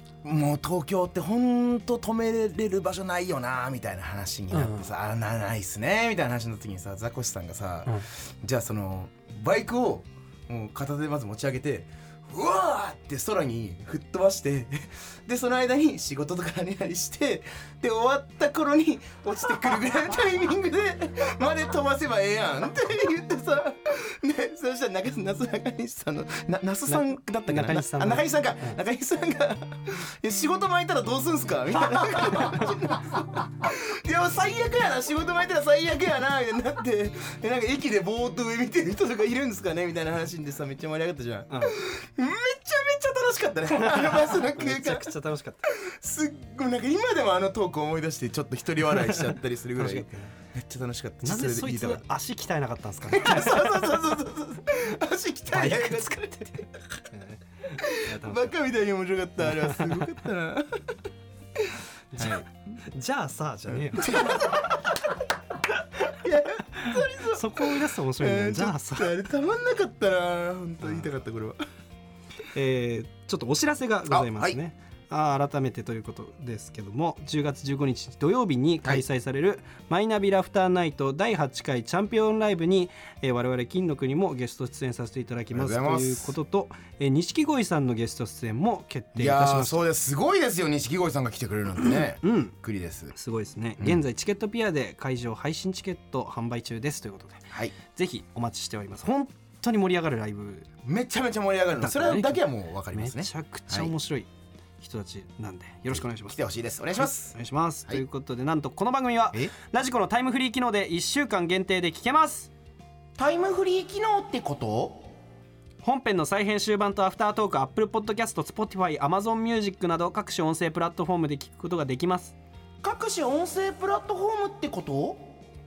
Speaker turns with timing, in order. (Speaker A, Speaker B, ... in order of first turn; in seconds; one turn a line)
Speaker A: 0.2-45.1
Speaker B: 4.5-4.9
Speaker B: 26.9-28.8
Speaker B: 41.5-41.8
Speaker B: 43.7-45.7
Speaker A: 45.6-52.0
Speaker B: 49.0-50.3
Speaker B: 51.2-54.2
Speaker A: 53.1-57.0
Speaker B: 55.5-56.2
Speaker B: 57.1-58.6
Speaker A: 57.8-61.0
Speaker B: 59.4-60.1
Speaker A: 61.6-62.5
Speaker B: 62.1-64.6
Speaker A: 63.7-71.6
Speaker B: 66.7-69.1
Speaker B: 72.5-89.8
Speaker A: 74.1-74.6
Speaker A: 85.5-86.3
Speaker A: 89.1-93.1
Speaker B: 91.8-92.5
Speaker B: 93.1-100.7
Speaker A: 100.8-103.9
Speaker B: 101.8-104.3
Speaker B: 104.8-106.4
Speaker A: 105.9-107.3
Speaker B: 106.9-112.5
Speaker A: 113.2-115.1
Speaker B: 115.8-122.3
Speaker A: 122.8-125.3